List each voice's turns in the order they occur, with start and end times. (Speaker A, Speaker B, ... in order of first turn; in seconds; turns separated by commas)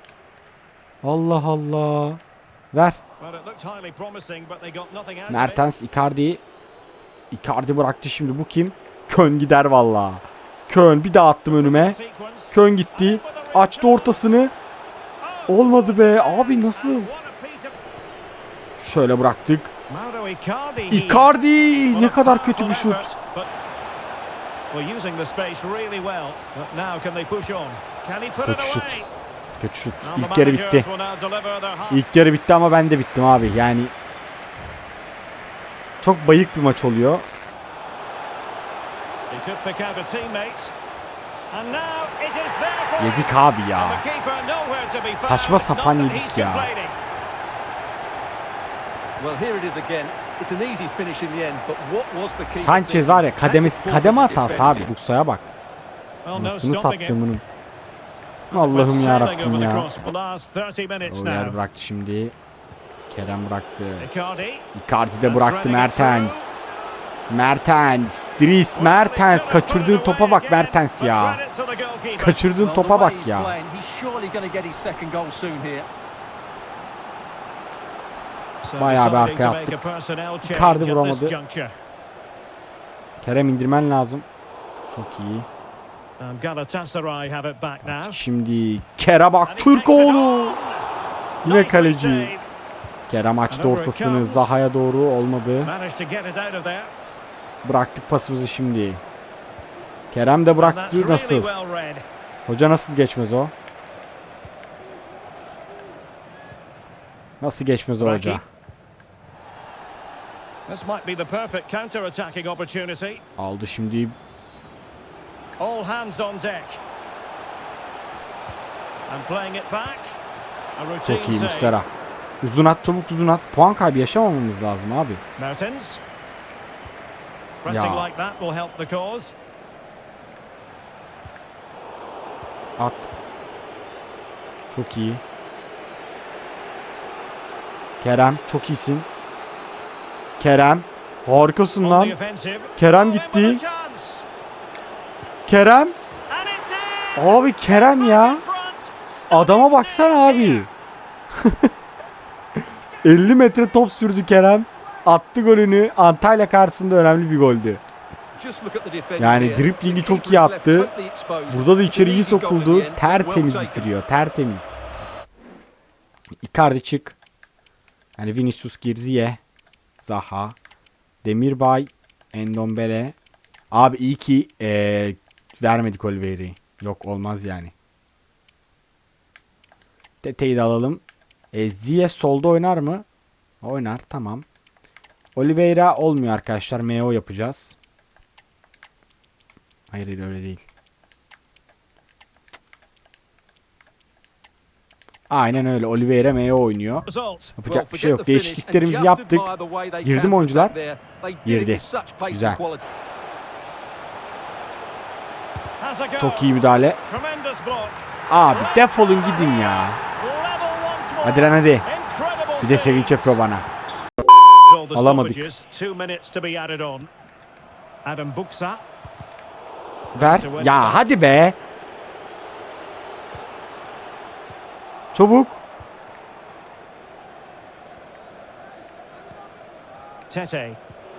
Speaker A: 1.0-2.2, Speaker A: 2.7-3.0, Speaker B: 3.2-5.7, Speaker A: 5.3-6.4, Speaker A: 7.3-12.0, Speaker B: 11.5-14.2, Speaker A: 12.5-14.5, Speaker B: 15.2-17.8, Speaker A: 15.5-17.1, Speaker A: 18.8-19.7, Speaker B: 19.9-23.5, Speaker A: 20.9-23.1, Speaker B: 24.7-29.1, Speaker A: 28.4-29.0, Speaker A: 29.6-30.9, Speaker B: 30.0-32.0, Speaker A: 31.9-33.9, Speaker A: 36.0-37.3, Speaker B: 39.3-40.7, Speaker B: 41.5-47.0, Speaker A: 43.0-44.0, Speaker A: 45.2-46.7, Speaker C: 49.2-54.9, Speaker A: 52.6-55.5, Speaker B: 56.2-57.2, Speaker A: 56.4-57.4, Speaker A: 58.5-59.9, Speaker B: 58.5-61.6, Speaker A: 61.1-62.4, Speaker A: 63.1-64.1, Speaker B: 64.0-64.7, Speaker A: 64.7-66.5, Speaker B: 65.2-66.5, Speaker A: 67.3-71.4, Speaker B: 68.8-72.5, Speaker A: 72.2-73.5, Speaker C: 72.6-75.9, Speaker B: 78.6-81.7, Speaker A: 78.8-79.8, Speaker A: 80.4-81.4, Speaker A: 83.2-84.3, Speaker A: 84.9-85.5, Speaker B: 86.2-88.2, Speaker A: 87.8-90.6, Speaker B: 89.5-90.8, Speaker A: 91.4-92.3, Speaker B: 91.4-92.5, Speaker A: 93.1-95.7, Speaker B: 93.5-94.5, Speaker B: 95.6-96.9, Speaker A: 97.6-99.0, Speaker A: 100.1-101.5, Speaker B: 100.6-102.0, Speaker A: 102.5-103.5, Speaker A: 107.4-108.4, Speaker B: 108.0-108.4, Speaker B: 110.7-113.2, Speaker A: 113.4-114.2, Speaker B: 115.6-116.8, Speaker B: 119.1-120.2, Speaker B: 120.8-121.8, Speaker A: 121.0-121.9, Speaker A: 122.4-125.2, Speaker B: 125.4-126.0, Speaker B: 127.6-129.3, Speaker A: 127.7-128.1, Speaker A: 132.8-133.1, Speaker A: 134.7-135.2, Speaker A: 138.0-139.1, Speaker A: 140.4-142.2, Speaker B: 141.8-144.3, Speaker A: 142.8-143.6, Speaker A: 145.5-146.0, Speaker B: 146.3-150.7, Speaker A: 147.2-148.4, Speaker A: 149.3-150.7, Speaker A: 151.4-151.7, Speaker A: 153.0-157.8, Speaker C: 158.4-163.9, Speaker A: 159.2-160.9, Speaker A: 161.5-164.8, Speaker A: 166.4-167.2, Speaker A: 168.2-169.4, Speaker A: 170.0-170.6, Speaker A: 171.2-173.2, Speaker A: 173.7-177.7, Speaker A: 180.2-183.1, Speaker A: 183.6-184.4, Speaker A: 185.4-187.8, Speaker A: 189.9-190.7, Speaker A: 195.3-197.1, Speaker B: 197.0-197.6, Speaker A: 197.6-199.5, Speaker C: 197.7-202.9, Speaker A: 200.0-200.8, Speaker A: 201.4-202.6, Speaker B: 205.8-213.4, Speaker A: 206.2-207.0, Speaker A: 208.3-210.0, Speaker A: 211.2-211.9, Speaker A: 212.6-213.7, Speaker B: 214.7-217.1, Speaker A: 214.9-215.5, Speaker B: 218.1-218.8, Speaker A: 220.2-221.6, Speaker B: 220.2-221.1, Speaker A: 225.1-225.6, Speaker B: 230.3-230.8